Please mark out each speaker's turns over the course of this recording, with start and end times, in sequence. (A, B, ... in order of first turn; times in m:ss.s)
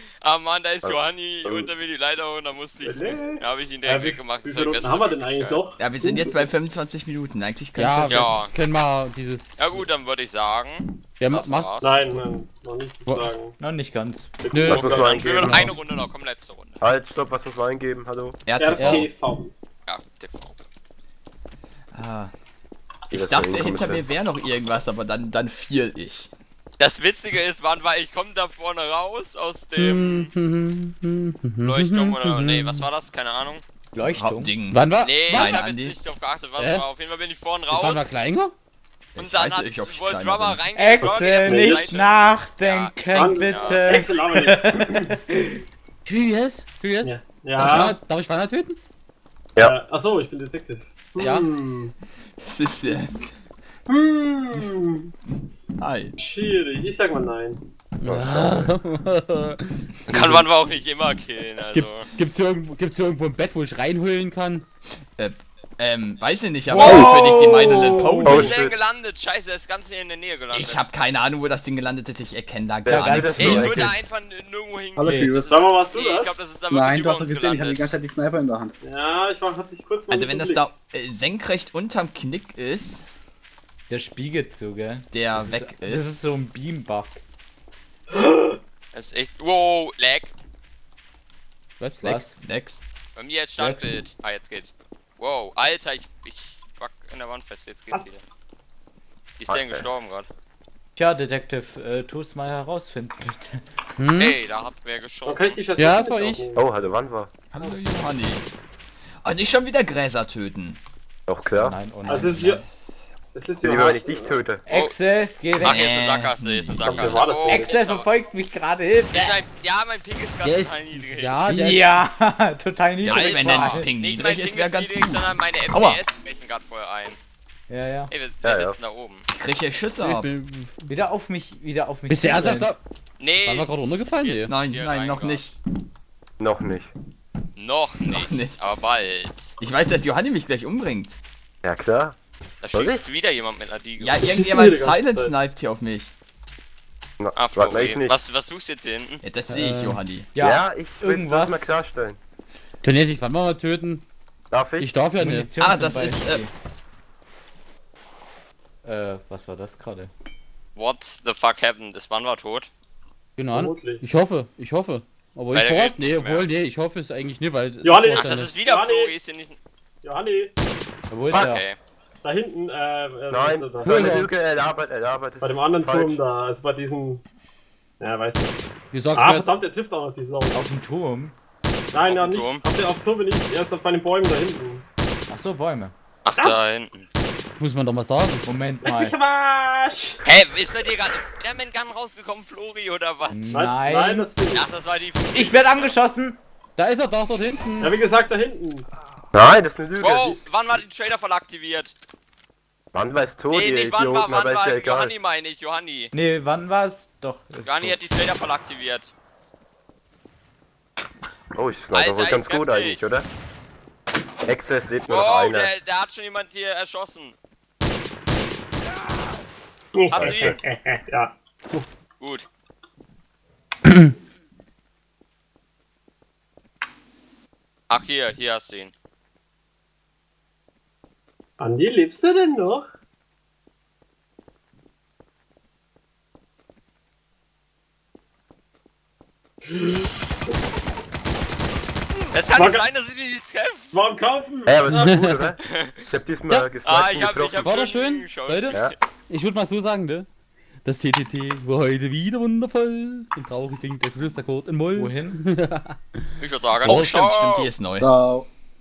0:00.2-0:05.6 A
0:02.8-0:06.5 B
0:05.8-0:08.4 C
0:07.8-0:09.9 D
0:08.1-0:08.5 A
0:09.6-0:12.1 A
0:11.2-0:11.7 D
0:11.8-0:13.6 B
0:13.6-0:14.3 E
0:14.4-0:15.6 B
0:14.5-0:14.9 D
0:14.6-0:15.6 F
0:14.8-0:16.8 A
0:15.4-0:15.8 D
0:16.8-0:18.4 F
0:18.4-0:19.1 C
0:18.5-0:19.5 B
0:18.8-0:19.0 D
0:19.9-0:20.6 A
0:21.9-0:22.3 C
0:23.1-0:26.3 C
0:23.1-0:24.0 F
0:26.8-0:30.3 A
0:29.8-0:32.8 D
0:31.6-0:33.6 A
0:33.9-0:34.5 E
0:34.1-0:36.0 C
0:34.7-0:35.6 D
0:35.0-0:38.1 A
0:36.6-0:36.8 D
0:37.7-0:38.5 D
0:39.1-0:40.7 C
0:39.2-0:44.1 A
0:40.7-0:45.6 E
0:41.0-0:42.1 B
0:43.0-0:45.2 B
0:46.0-0:48.8 D
0:47.0-0:48.0 B
0:49.6-0:51.9 B
0:51.2-0:51.4 D
0:52.4-0:53.2 C
0:53.9-0:55.1 B
0:55.8-0:56.1 C
0:56.2-0:57.6 B
0:58.0-1:00.4 D
0:58.0-0:58.7 F
1:00.1-1:02.1 A
1:01.7-1:04.6 D
1:05.2-1:08.6 C
1:06.7-1:08.6 E
1:06.7-1:10.8 A
1:08.2-1:08.8 F
1:10.5-1:13.9 C
1:12.8-1:13.9 F
1:12.9-1:13.8 E
1:13.4-1:18.0 A
1:15.0-1:15.6 G
1:15.0-1:15.4 E
1:15.5-1:16.4 B
1:16.7-1:18.7 G
1:18.8-1:20.7 B
1:20.1-1:23.0 C
1:23.9-1:27.2 E
1:25.1-1:26.1 C
1:28.9-1:30.3 A
1:31.8-1:32.2 D
1:32.0-1:32.3 E
1:32.4-1:32.8 C
1:33.2-1:38.2 A
1:33.6-1:34.0 E
1:37.9-1:38.2 B
1:39.4-1:40.3 A
1:39.5-1:39.8 F
1:41.0-1:43.6 E
1:44.0-1:44.4 D
1:44.2-1:45.6 A
1:45.2-1:46.7 B
1:45.8-1:46.5 D
1:46.5-1:47.3 F
1:47.5-1:48.4 C
1:49.2-1:50.8 C
1:51.3-1:52.3 F
1:51.5-1:52.6 E
1:52.0-1:52.6 B
1:52.4-1:53.0 C
1:53.3-1:54.4 B
1:53.6-1:54.6 F
1:54.6-1:55.9 E
1:54.7-1:55.0 A
1:55.6-1:57.0 C
1:55.6-1:58.1 A
1:56.8-1:57.8 B
1:56.9-1:59.3 E
1:59.1-2:01.4 A
2:00.4-2:01.8 D
2:01.5-2:03.9 E
2:03.0-2:06.0 C
2:03.0-2:07.2 A
2:07.7-2:08.1 E
2:08.1-2:09.2 A
2:08.4-2:08.8 F
2:09.3-2:10.3 C
2:10.0-2:10.8 D
2:10.8-2:12.7 E
2:12.1-2:12.8 D
2:13.2-2:15.5 A
2:13.4-2:14.5 D
2:14.5-2:15.5 C
2:16.4-2:16.9 F
2:17.6-2:19.6 A
2:18.0-2:18.6 C
2:19.6-2:21.2 C
2:21.6-2:22.2 F
2:22.6-2:24.2 A
2:22.7-2:23.0 F
2:24.0-2:26.1 C
2:24.2-2:25.4 B
2:27.2-2:28.2 F
2:27.3-2:29.2 A
2:29.2-2:30.3 C
2:29.5-2:30.0 D
2:30.3-2:31.7 E
2:30.4-2:32.2 F
2:32.8-2:34.0 D
2:34.5-2:35.0 F
2:34.8-2:35.5 D
2:35.2-2:36.5 E
2:35.6-2:36.4 C
2:38.8-2:40.1 E
2:40.8-2:42.7 A
2:43.4-2:48.5 D
2:43.5-2:44.0 B
2:45.5-2:46.5 A
2:47.8-2:49.1 B
2:48.1-2:49.6 A
2:50.0-2:50.5 B
2:51.1-2:51.6 E
2:51.3-2:51.8 A
2:52.2-2:54.3 B
2:53.3-2:56.2 F
2:53.8-2:54.3 D
2:55.4-2:57.2 B
2:58.0-2:58.5 B
2:58.9-2:59.5 D
2:59.1-3:00.6 B
3:00.5-3:01.4 E
3:01.9-3:04.8 B
3:02.1-3:02.6 A
3:05.3-3:05.9 E
3:06.2-3:07.1 A
3:06.4-3:06.6 B
3:07.6-3:08.5 D
3:08.4-3:09.2 E
3:08.8-3:10.2 B
3:10.2-3:13.6 A
3:13.3-3:14.3 E
3:13.5-3:14.7 B
3:14.5-3:15.9 A
3:15.3-3:16.4 E
3:16.8-3:17.9 D
3:17.8-3:18.9 B
3:19.3-3:20.4 F
3:20.0-3:21.9 A
3:22.9-3:25.1 F
3:23.5-3:26.1 A
3:26.1-3:28.0 E
3:27.6-3:29.1 A
3:31.5-3:33.3 F
3:31.9-3:33.0 A
3:34.4-3:35.7 F
3:35.1-3:37.3 A
3:39.9-3:41.8 B
3:40.1-3:40.6 A
3:42.2-3:42.5 A
3:47.9-3:48.9 A
3:51.6-3:52.9 B
3:59.7-4:00.1 B
4:02.3-4:03.9 A
4:02.5-4:02.8 B
4:03.9-4:05.4 B
4:04.7-4:07.7 F
4:04.9-4:05.4 D
4:05.6-4:06.0 A
4:06.8-4:08.9 A
4:07.6-4:10.3 D
4:10.8-4:16.2 D
4:14.9-4:15.4 E
4:16.4-4:17.7 A
4:16.8-4:18.1 C
4:16.8-4:17.1 D
4:18.0-4:18.5 G